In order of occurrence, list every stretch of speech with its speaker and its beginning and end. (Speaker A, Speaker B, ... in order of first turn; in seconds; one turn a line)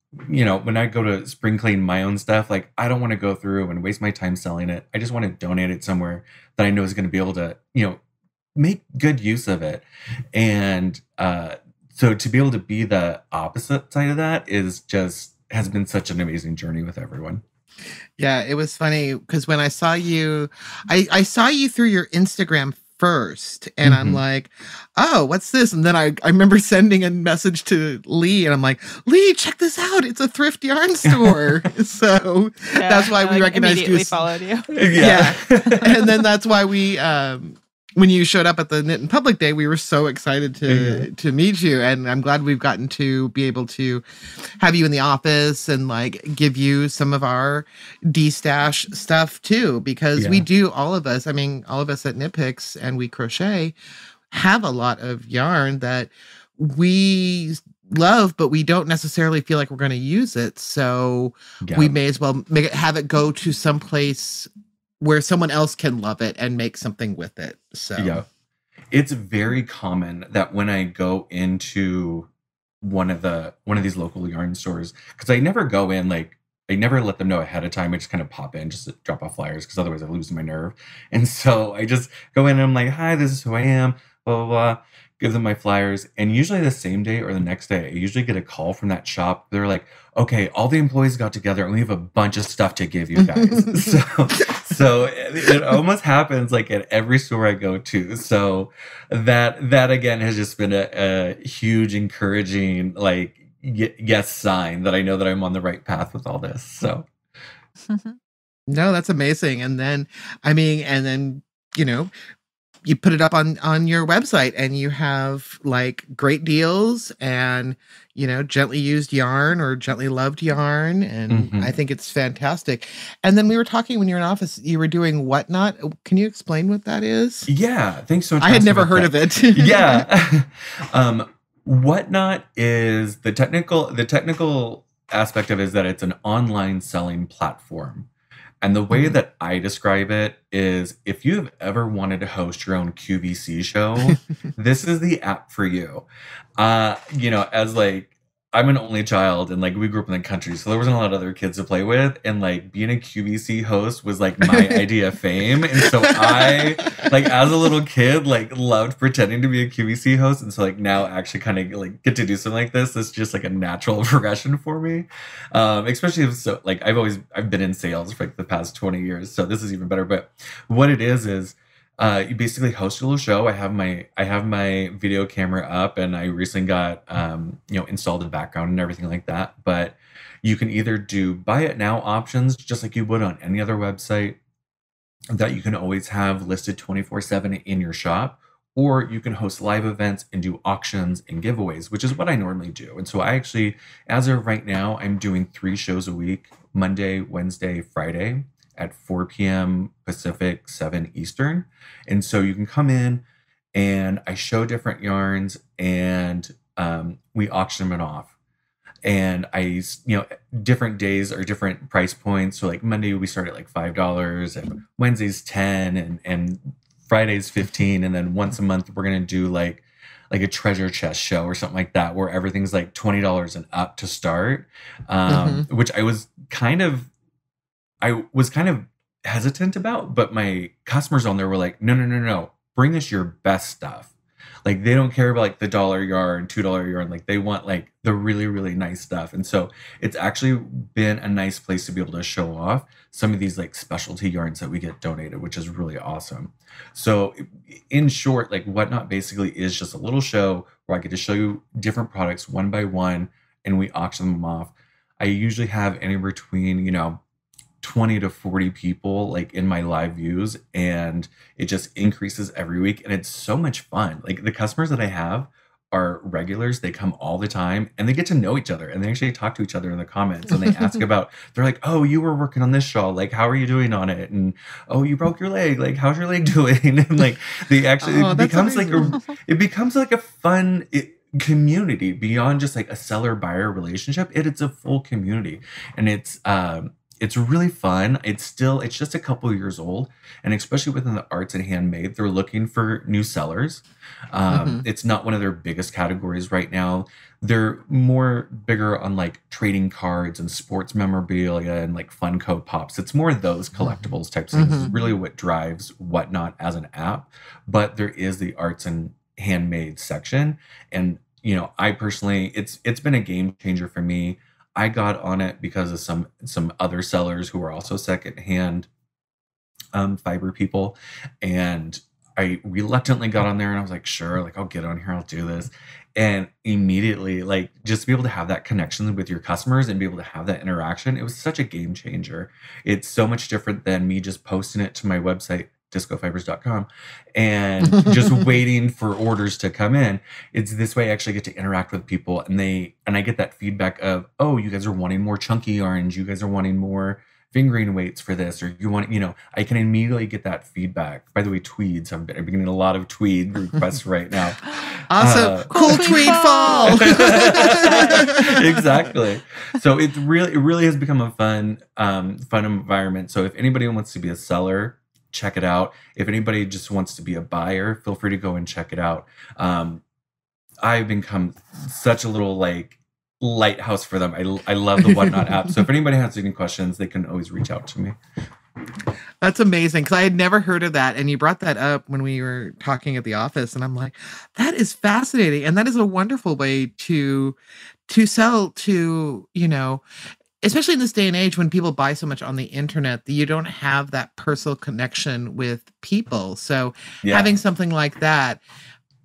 Speaker A: 0.3-8.0
Speaker A: 8.6-17.4
Speaker B: 18.2-34.2
Speaker A: 23.8-24.2
Speaker A: 31.1-31.6
Speaker C: 32.7-34.7
Speaker A: 34.8-36.2
Speaker B: 35.0-44.0
Speaker A: 40.7-41.1
Speaker B: 44.6-53.7
Speaker A: 50.2-50.4
Speaker B: 54.3-68.2
Speaker A: 61.6-61.9
Speaker A: 68.0-68.3
Speaker A: 68.9-72.3
Speaker A: 72.8-107.1
Speaker C: 107.9-108.2
Speaker B: 108.7-112.1
Speaker B: 112.8-127.5
Speaker A: 121.3-121.7
Speaker A: 127.5-138.1
Speaker B: 128.4-130.1
Speaker A: 138.6-146.0
Speaker B: 138.9-139.2
Speaker A: 146.6-184.4
Speaker B: 154.4-154.8
Speaker B: 155.9-156.7
Speaker A: 185.3-203.2
Speaker A: 203.7-208.3
Speaker A: 209.0-227.1
Speaker B: 225.3-225.7
Speaker A: 228.0-234.1
Speaker A: 234.6-257.2
Speaker A: 257.8-318.9
Speaker B: 278.0-279.2
Speaker B: 294.5-294.8
Speaker B: 304.5-304.9
Speaker A: 319.9-370.0
Speaker B: 355.1-358.6
Speaker C: 355.7-358.2
Speaker A: 370.8-378.1
Speaker B: 379.4-387.6
Speaker B: 388.1-390.0
Speaker B: 390.6-398.6
Speaker A: 397.2-397.5